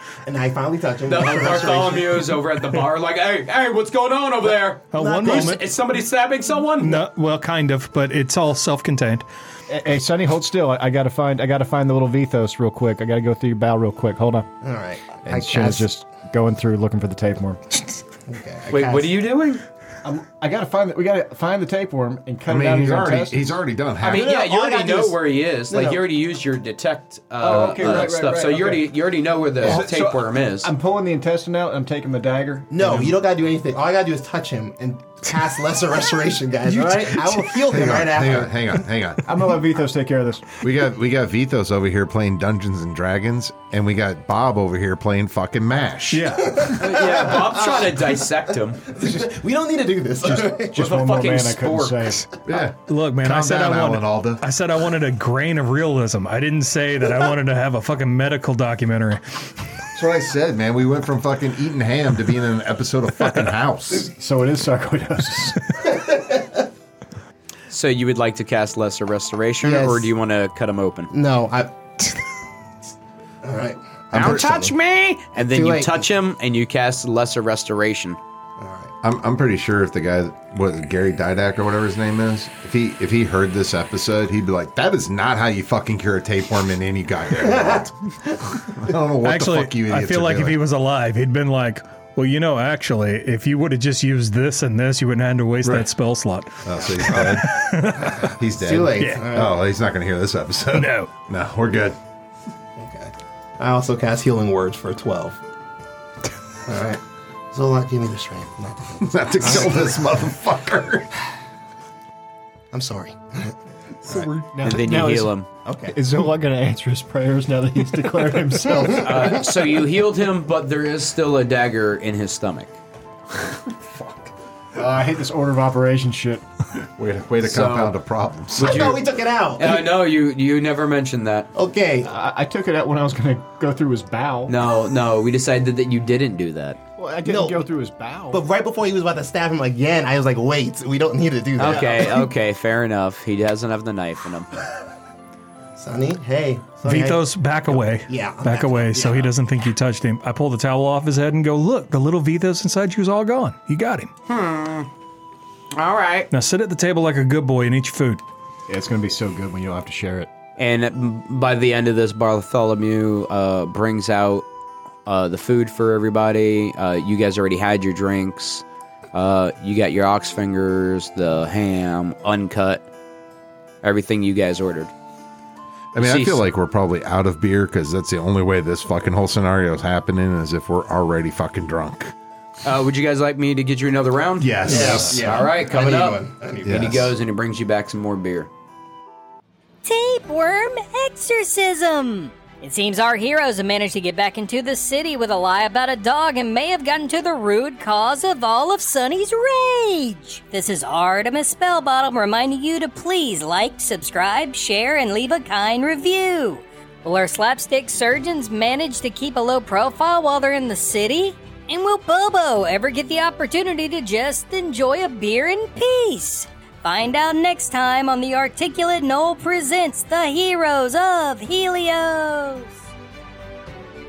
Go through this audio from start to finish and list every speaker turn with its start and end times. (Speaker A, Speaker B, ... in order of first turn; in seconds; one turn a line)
Speaker A: 0.3-2.3
Speaker B: 1.1-7.0
Speaker C: 4.9-5.6
Speaker A: 5.2-5.5
Speaker C: 6.8-9.3
Speaker D: 9.7-14.5
Speaker A: 14.6-15.9
Speaker D: 15.2-17.6
Speaker A: 18.3-19.2
Speaker B: 18.7-19.6
Speaker D: 20.0-23.6
Speaker E: 22.5-24.3
Speaker B: 24.0-30.7
Speaker A: 24.1-26.1
Speaker D: 27.4-28.9
Speaker A: 27.4-28.0
Speaker D: 29.6-33.2
Speaker A: 32.7-38.7
Speaker C: 36.7-37.1
Speaker D: 36.7-37.0
Speaker E: 37.7-39.3
Speaker D: 39.3-40.5
Speaker E: 40.6-46.8
Speaker C: 46.1-46.7
Speaker A: 46.5-48.2
Speaker B: 46.7-48.8
Speaker A: 48.8-50.8
Speaker D: 50.2-52.3
Speaker B: 50.7-52.2
Speaker E: 52.5-54.4
Speaker C: 52.9-59.5
Speaker E: 60.0-64.1
Speaker D: 64.1-66.0
Speaker A: 66.1-66.3
Speaker B: 67.7-71.1
Speaker A: 69.6-70.1
Speaker A: 71.1-71.7
Speaker A: 73.4-74.7
Speaker B: 74.1-78.2
Speaker E: 74.1-74.5
Speaker A: 75.4-76.0
Speaker A: 78.6-78.9
Speaker E: 79.0-87.9
Speaker A: 87.4-88.3
Speaker E: 88.5-90.6
Speaker C: 89.2-98.3
Speaker E: 95.6-95.9
Speaker E: 96.6-97.5
Speaker A: 98.0-99.6
Speaker E: 98.4-102.0
Speaker C: 99.0-99.3
Speaker C: 100.7-101.1
Speaker A: 102.8-105.4
Speaker A: 106.6-110.1
Speaker E: 109.0-111.1
Speaker A: 112.7-113.5
Speaker D: 114.2-115.3
Speaker B: 114.6-115.5
Speaker A: 115.6-116.0
Speaker D: 115.9-119.3
Speaker B: 118.9-122.8
Speaker D: 124.7-126.4
Speaker E: 127.0-129.0
Speaker B: 127.4-128.0
Speaker B: 128.6-129.0
Speaker A: 128.6-129.9
Speaker B: 129.6-131.5
Speaker A: 131.5-132.1
Speaker D: 132.0-134.6
Speaker B: 134.5-136.8
Speaker D: 137.0-138.4
Speaker A: 137.2-137.6
Speaker A: 138.3-142.3
Speaker B: 141.6-144.5
Speaker A: 145.8-149.3
Speaker C: 146.8-154.1
Speaker B: 154.3-154.9
Speaker B: 155.7-156.3
Speaker C: 156.3-158.2
Speaker D: 158.7-160.3
Speaker B: 160.6-164.4
Speaker B: 165.1-172.9
Speaker B: 173.8-174.9
Speaker E: 175.9-182.1
Speaker B: 176.0-176.4
Speaker B: 182.6-188.5
Speaker E: 184.4-185.4
Speaker A: 184.6-187.0
Speaker E: 186.6-187.1
Speaker F: 189.8-222.8